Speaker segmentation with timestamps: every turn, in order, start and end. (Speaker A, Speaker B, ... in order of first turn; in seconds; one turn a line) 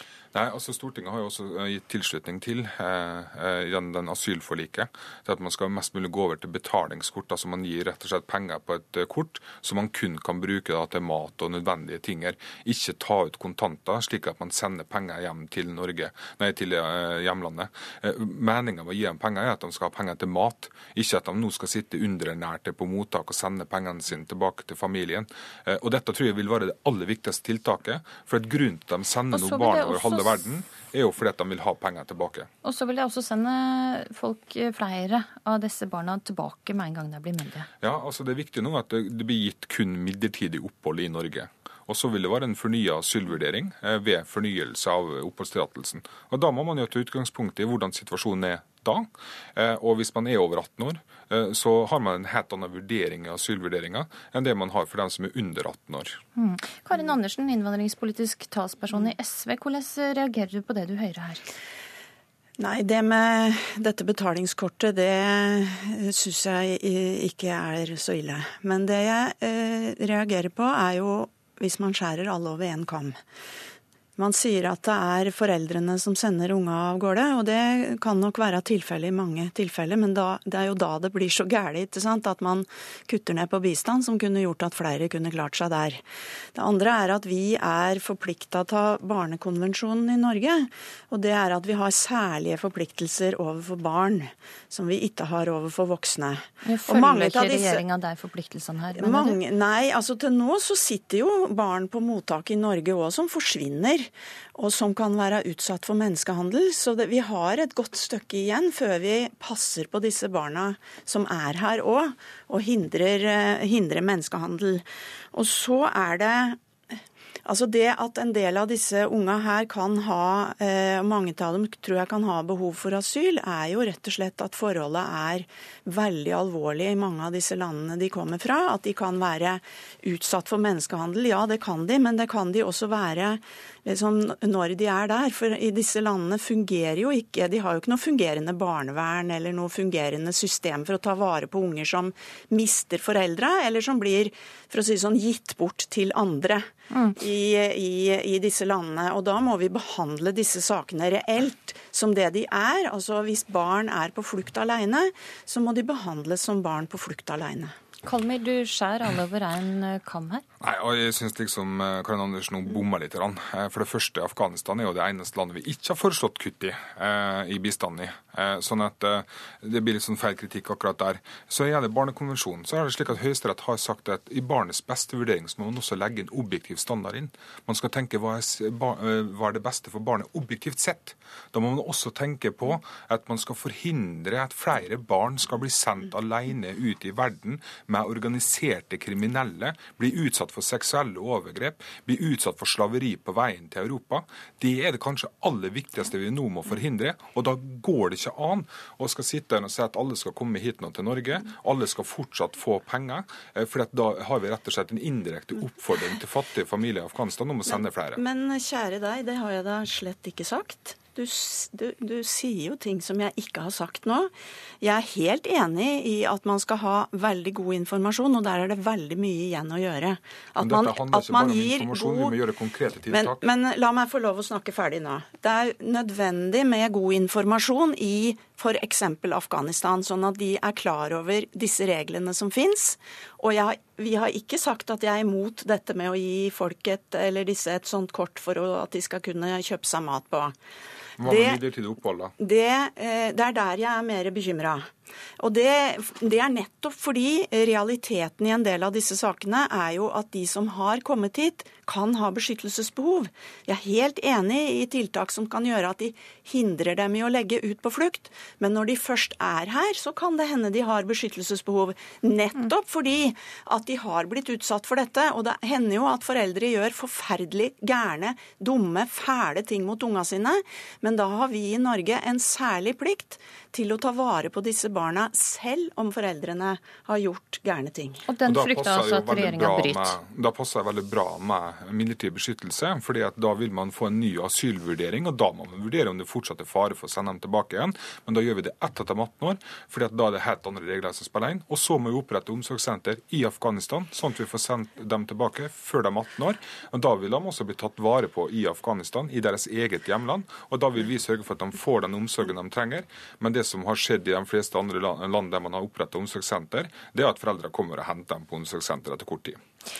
Speaker A: 0.3-32.5
Speaker B: 29.3-30.4
Speaker B: 32.6-37.7
Speaker A: 37.8-56.2
Speaker B: 56.4-61.5
Speaker C: 62.6-73.2
Speaker C: 74.2-86.0
Speaker C: 86.5-97.8
Speaker B: 96.6-99.4
Speaker C: 98.9-116.6
Speaker C: 117.5-157.7
Speaker B: 158.0-160.4
Speaker A: 160.6-208.2
Speaker C: 207.7-214.3
Speaker C: 214.8-222.4
Speaker A: 220.6-223.4
Speaker C: 223.1-240.5
Speaker A: 241.2-242.3
Speaker C: 241.2-241.6
Speaker C: 242.4-244.9
Speaker C: 245.4-278.3
Speaker B: 278.3-280.2
Speaker A: 278.4-309.6